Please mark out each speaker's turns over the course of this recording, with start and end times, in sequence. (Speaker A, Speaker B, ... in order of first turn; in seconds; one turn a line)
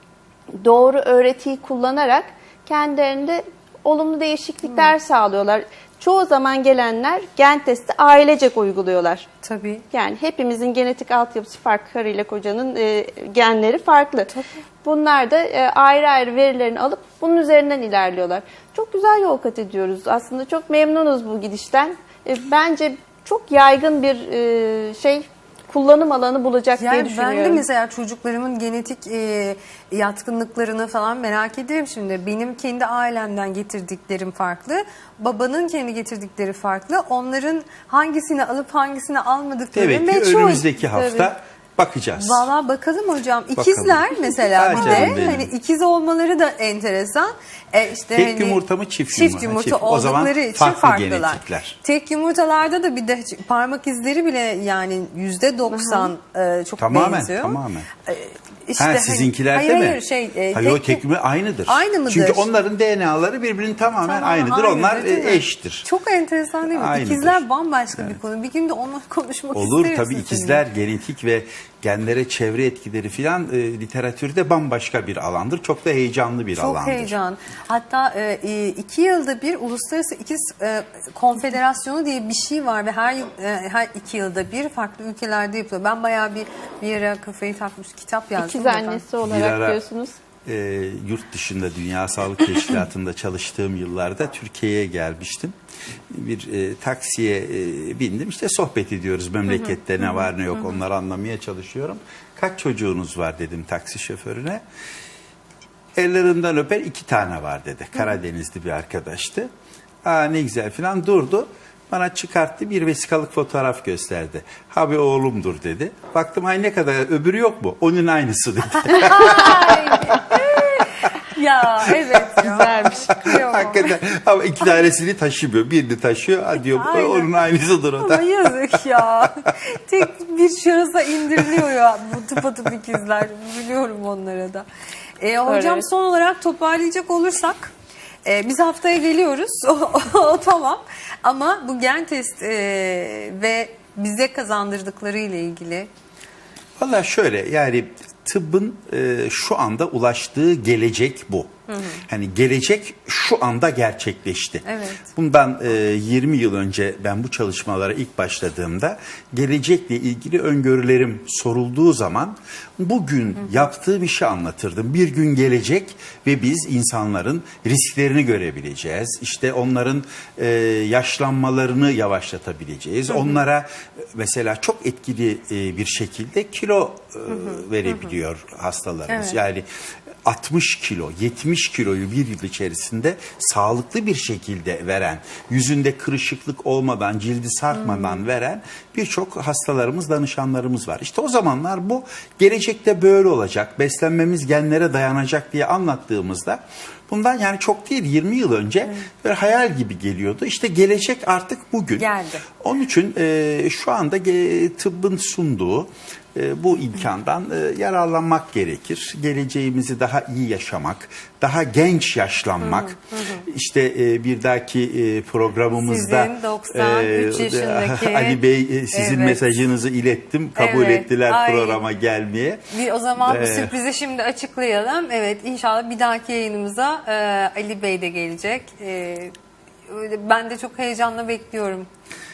Speaker A: 0.5-9.3
Speaker B: 4.7-4.9
Speaker B: 9.4-9.8
Speaker A: 9.9-14.3
Speaker B: 14.3-14.6
Speaker A: 14.8-27.6
Speaker B: 26.8-41.3
Speaker C: 39.7-42.5
Speaker B: 42.2-61.0
Speaker C: 43.6-45.5
Speaker C: 48.1-51.8
Speaker A: 55.7-56.1
Speaker C: 56.8-57.9
Speaker C: 58.8-60.0
Speaker C: 60.5-65.9
Speaker B: 61.7-62.5
Speaker B: 64.0-70.6
Speaker C: 66.7-67.4
Speaker C: 68.0-68.2
Speaker C: 69.5-77.2
Speaker B: 76.6-89.0
Speaker A: 88.4-90.2
Speaker C: 89.2-89.8
Speaker C: 90.4-95.6
Speaker C: 96.1-104.6
Speaker B: 100.0-100.3
Speaker C: 106.0-109.5
Speaker C: 110.0-120.5
Speaker B: 118.9-124.0
Speaker C: 121.8-129.5
Speaker B: 126.7-127.3
Speaker B: 128.0-134.7
Speaker C: 131.4-131.6
Speaker B: 135.2-137.7
Speaker A: 135.5-135.9
Speaker B: 138.2-145.9
Speaker C: 146.8-222.7
Speaker B: 151.7-152.0
Speaker B: 154.7-155.1
Speaker B: 173.1-173.4
Speaker B: 177.3-178.2
Speaker B: 179.1-179.4
Speaker B: 187.7-188.2
Speaker B: 202.0-202.4
Speaker B: 212.6-213.5
Speaker B: 215.7-219.6
Speaker B: 220.6-221.8
Speaker B: 222.7-229.3
Speaker C: 223.2-223.8
Speaker B: 229.9-231.9